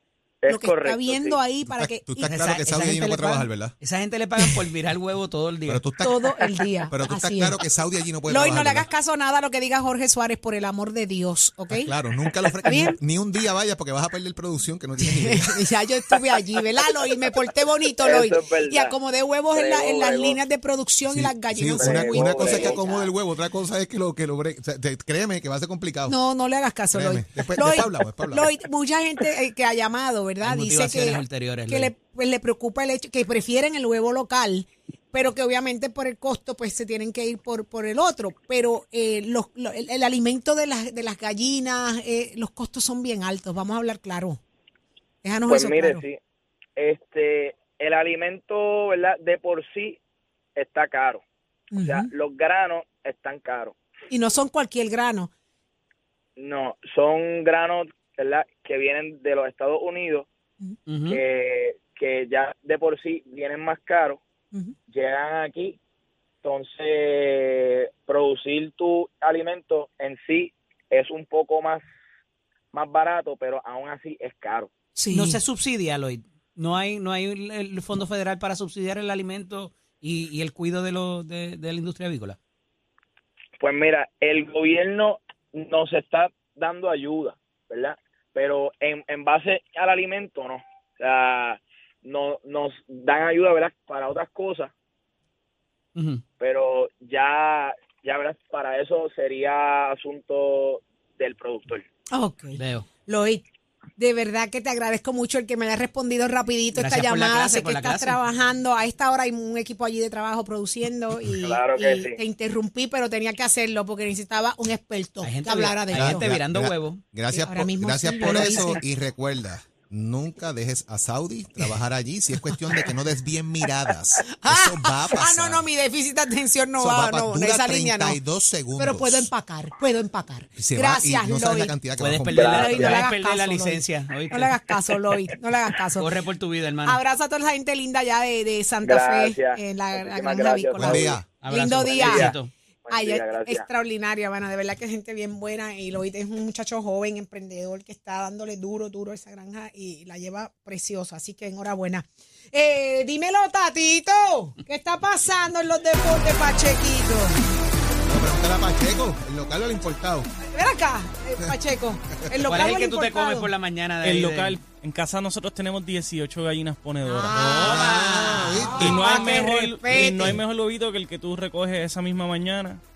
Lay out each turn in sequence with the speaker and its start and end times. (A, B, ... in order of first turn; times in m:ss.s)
0:00.4-0:01.4 A
0:00.5-0:03.4 B
0:01.7-0:03.7 C
0:02.3-0:03.2 D
0:03.8-0:05.8 D
0:05.7-0:08.9 C
0:06.0-0:07.6 B
0:08.3-0:11.9 B
0:11.7-0:15.7 C
0:12.6-0:13.0 B
0:15.0-0:22.8 B
0:18.0-0:18.9 A
0:19.5-0:20.4 A
0:21.1-0:26.2 C
0:21.7-0:23.1 A
0:26.1-0:44.4 B
0:26.9-0:28.5 C
0:30.4-0:31.9 D
0:45.2-0:46.0 B
0:45.4-0:46.2 A
0:46.8-0:50.0 A
0:50.6-0:51.2 A
0:51.7-0:52.1 B
0:51.7-0:53.8 A
0:54.1-0:55.3 B
0:56.4-1:00.3 A
1:00.8-1:01.2 D
1:01.1-1:04.2 A
1:04.9-1:05.8 A
1:06.4-1:11.8 A
1:12.7-1:14.7 A
1:15.0-1:15.4 B
1:15.1-1:22.4 D
1:23.6-1:34.7 A
1:36.0-1:36.2 D
1:36.4-1:41.8 A
1:42.1-1:43.4 B
1:42.6-1:42.9 D
1:44.0-1:56.3 B
1:46.7-1:48.2 D
1:51.4-1:52.2 A
1:55.2-1:57.0 D
1:55.9-2:05.7 C
1:57.3-1:58.8 B
2:04.4-2:08.2 B
2:06.8-2:09.3 C
2:08.8-2:11.7 B
2:10.6-2:12.7 C
2:12.0-2:14.6 D
2:12.3-2:13.0 A
2:12.5-2:16.1 B
2:16.0-2:17.0 D
2:16.8-2:22.4 B
2:18.8-2:21.0 A
2:20.8-2:21.2 C
2:21.4-2:22.5 D
2:21.9-2:23.6 A
2:22.9-2:37.4 B
2:38.0-2:40.3 C
2:40.5-2:43.5 B
2:42.5-2:44.6 D
2:44.0-2:47.9 E
2:47.0-2:50.4 B
2:47.3-2:49.2 C
2:47.6-2:48.7 D
2:48.7-2:52.8 E